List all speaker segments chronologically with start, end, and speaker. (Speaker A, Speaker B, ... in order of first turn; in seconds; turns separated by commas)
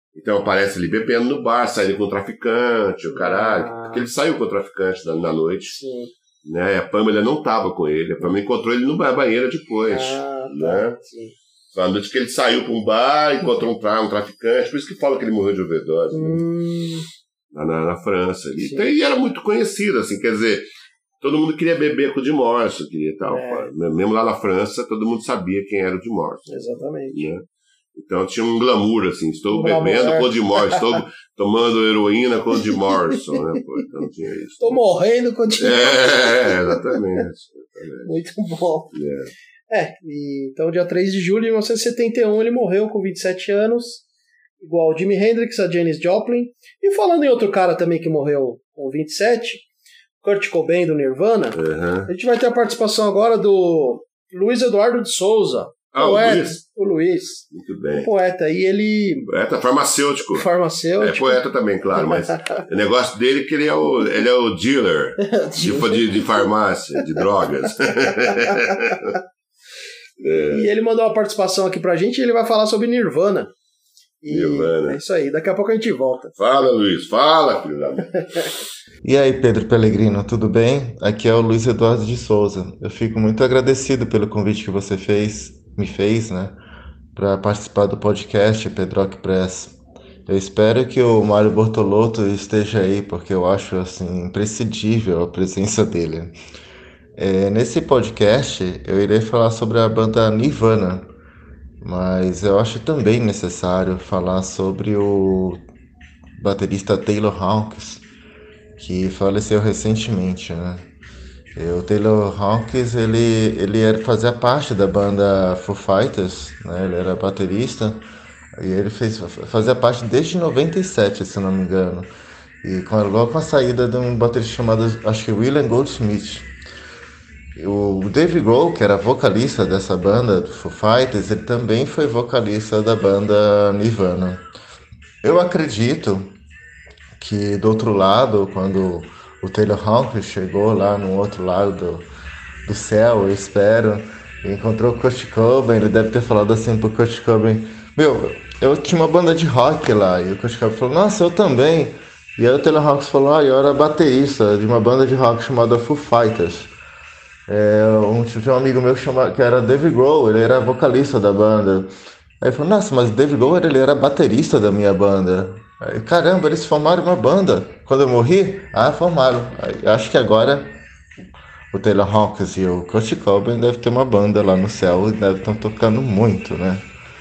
Speaker A: 0.1-5.8, Speaker B: 3.1-4.1, Speaker B: 5.7-6.1, Speaker A: 6.4-11.0, Speaker B: 9.9-11.4, Speaker A: 11.7-16.4, Speaker B: 16.1-17.1, Speaker A: 17.5-20.7, Speaker B: 18.6-18.9, Speaker A: 21.2-26.5, Speaker B: 23.3-23.7, Speaker B: 26.5-27.3, Speaker A: 27.1-34.8, Speaker B: 29.5-31.0, Speaker B: 32.7-33.4, Speaker B: 34.6-37.0, Speaker A: 35.6-38.1, Speaker B: 38.0-38.9, Speaker A: 38.9-39.3, Speaker B: 39.7-44.0, Speaker B: 44.6-49.7, Speaker B: 50.2-59.3, Speaker A: 51.5-52.1, Speaker A: 55.9-56.6, Speaker A: 57.5-58.1, Speaker A: 59.3-60.5, Speaker B: 60.3-61.4, Speaker A: 61.0-69.2, Speaker B: 62.0-62.6, Speaker B: 65.2-66.4, Speaker B: 68.4-69.0, Speaker A: 70.2-70.7, Speaker B: 70.3-73.5, Speaker B: 74.2-76.3, Speaker A: 74.3-75.0, Speaker A: 76.4-78.1, Speaker C: 79.0-86.6, Speaker C: 87.1-89.7, Speaker C: 90.3-96.3, Speaker C: 97.2-101.1, Speaker C: 101.8-105.6, Speaker C: 106.4-108.0, Speaker C: 108.8-110.8, Speaker C: 111.5-118.0, Speaker C: 118.6-122.1, Speaker C: 122.6-126.5, Speaker C: 127.6-134.4, Speaker C: 135.2-136.3, Speaker C: 137.2-142.1, Speaker C: 142.7-156.7, Speaker C: 157.5-161.9, Speaker C: 162.4-170.7, Speaker C: 171.7-176.8